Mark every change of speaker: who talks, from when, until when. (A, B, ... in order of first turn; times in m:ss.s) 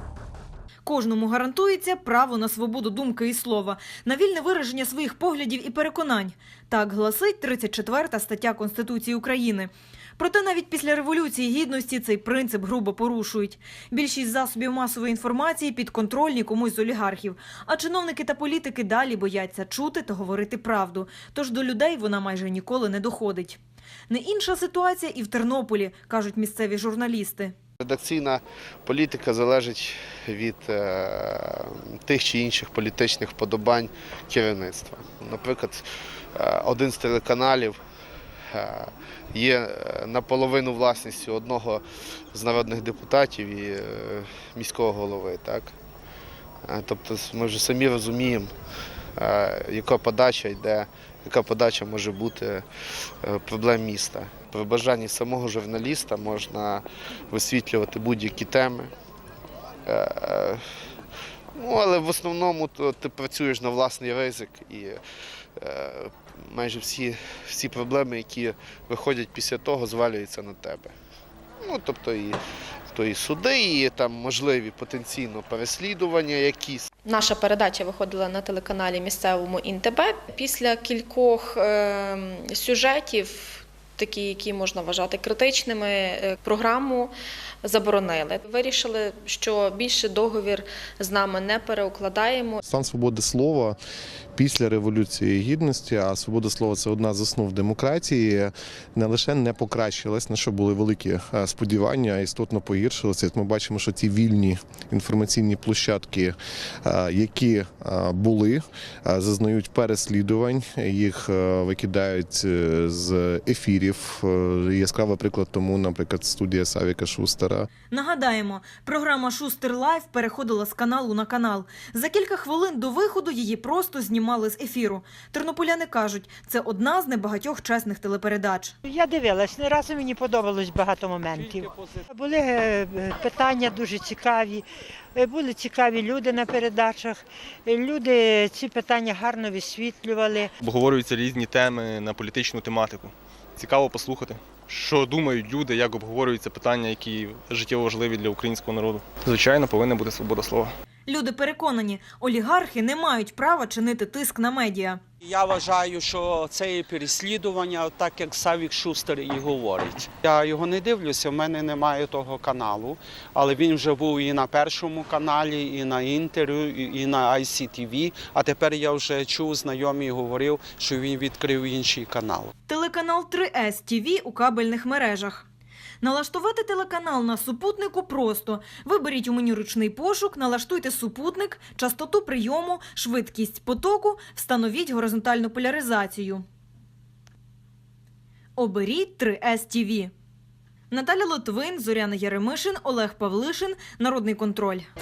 0:00.8-0:27.5 A
0:27.8-0:35.8 B
0:36.4-0:37.8 B
0:38.5-0:41.8 B
0:42.3-0:45.7 B
0:46.7-0:48.5 B
0:49.2-0:52.6 B
0:53.2-0:58.9 B
0:59.9-1:00.6 B
1:01.6-1:05.0 B
1:05.6-1:10.9 B
1:11.6-1:12.4 B
1:12.9-1:16.9 B
1:17.0-1:32.6 C
1:32.6-1:33.8 D
1:34.4-1:57.7 D
1:57.9-2:08.8 A
2:08.8-2:20.5 E
2:20.6-2:30.7 F
2:31.1-2:35.0 A
2:35.4-2:38.9 G
2:40.3-2:52.5 G
2:52.7-2:55.5 A
2:56.0-3:06.4 A
3:08.6-3:10.1 A
3:10.9-3:14.9 A